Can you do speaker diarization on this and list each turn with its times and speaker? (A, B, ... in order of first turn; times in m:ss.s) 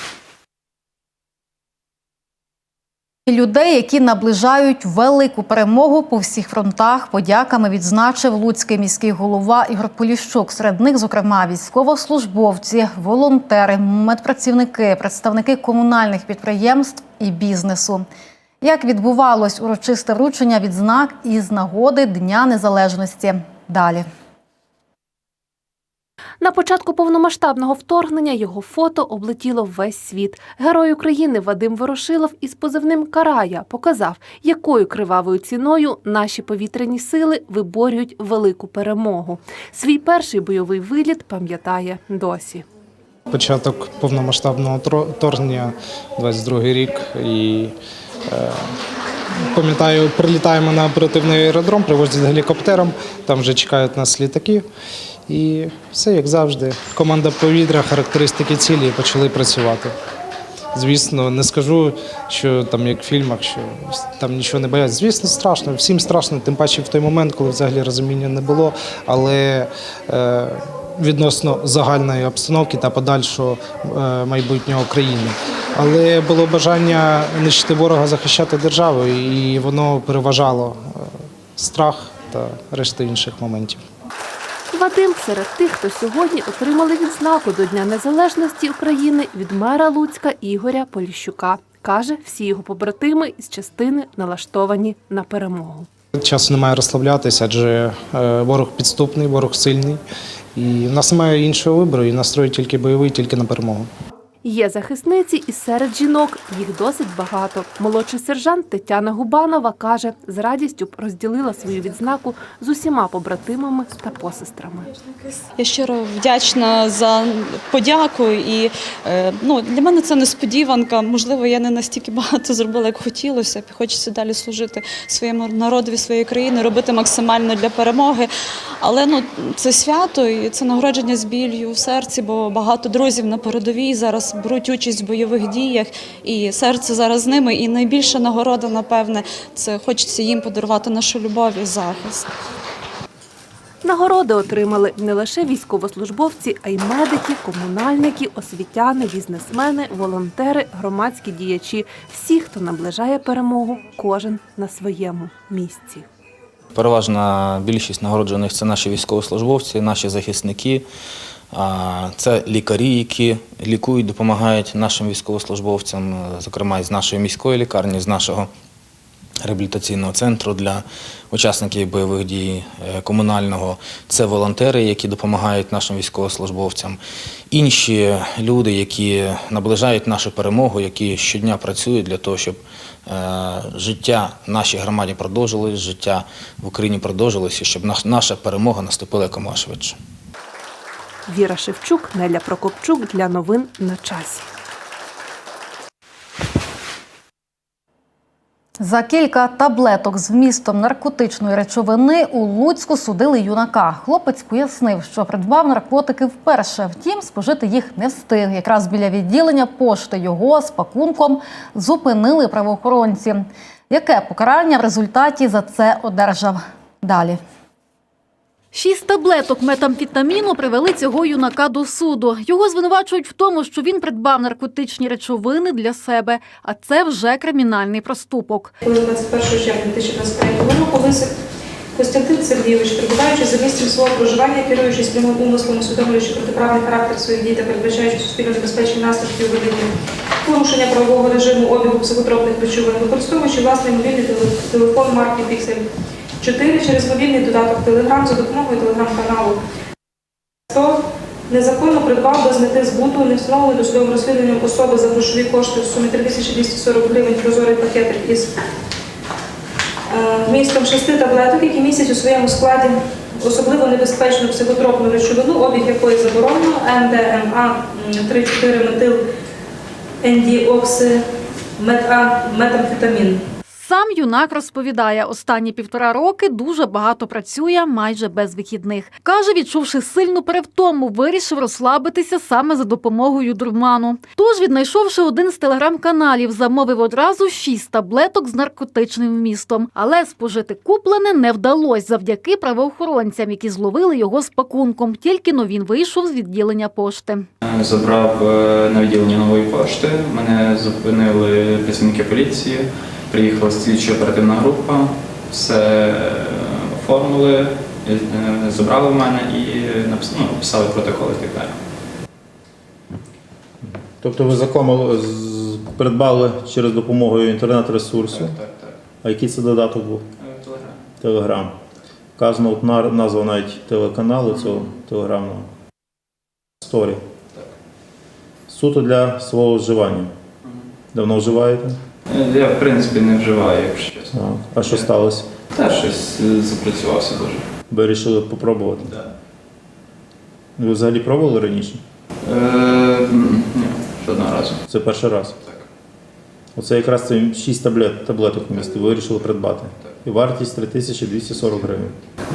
0:03.3-0:18.0 A
0:18.6-0:24.0 A
0:26.4-0:42.6 B
0:43.3-0:47.7 C
0:48.3-0:48.7 C
0:49.4-0:54.6 C
0:55.3-0:59.9 C
1:00.7-1:23.8 C
1:24.7-1:35.9 B
1:36.1-1:40.0 C
1:40.5-1:43.9 C
1:44.4-1:54.9 B
1:55.6-2:08.3 D
2:08.8-2:22.3 D
2:23.8-2:36.0 B
2:36.7-2:40.8 E
2:41.5-2:48.5 E
2:49.4-2:57.0 E
2:57.5-3:10.0 E
3:11.3-3:14.5 B
3:18.8-3:37.4 A
3:38.7-3:48.7 A
3:48.8-3:51.3 F
3:51.9-3:59.9 F
4:00.4-4:05.8 F
4:06.4-4:09.6 F
4:10.7-4:18.5 F
4:20.1-4:29.2 F
4:30.2-4:31.2 F
4:31.8-4:33.4 F
4:33.7-4:57.5 A
4:57.6-5:11.8 G
5:13.8-5:18.6 H
5:18.3-5:19.0 G
5:19.2-5:20.3 H
5:20.4-5:21.0 G
5:21.2-5:21.8 H
5:22.4-5:25.7 H
5:26.8-5:27.2 H
5:28.7-5:30.3 H
5:31.1-5:32.0 H
5:32.3-5:35.1 G
5:34.3-5:35.5 H
5:35.7-5:37.7 G
5:37.9-5:39.1 H
5:40.8-5:42.0 H
5:42.4-5:44.8 G
5:44.9-5:45.5 H
5:46.7-5:52.1 H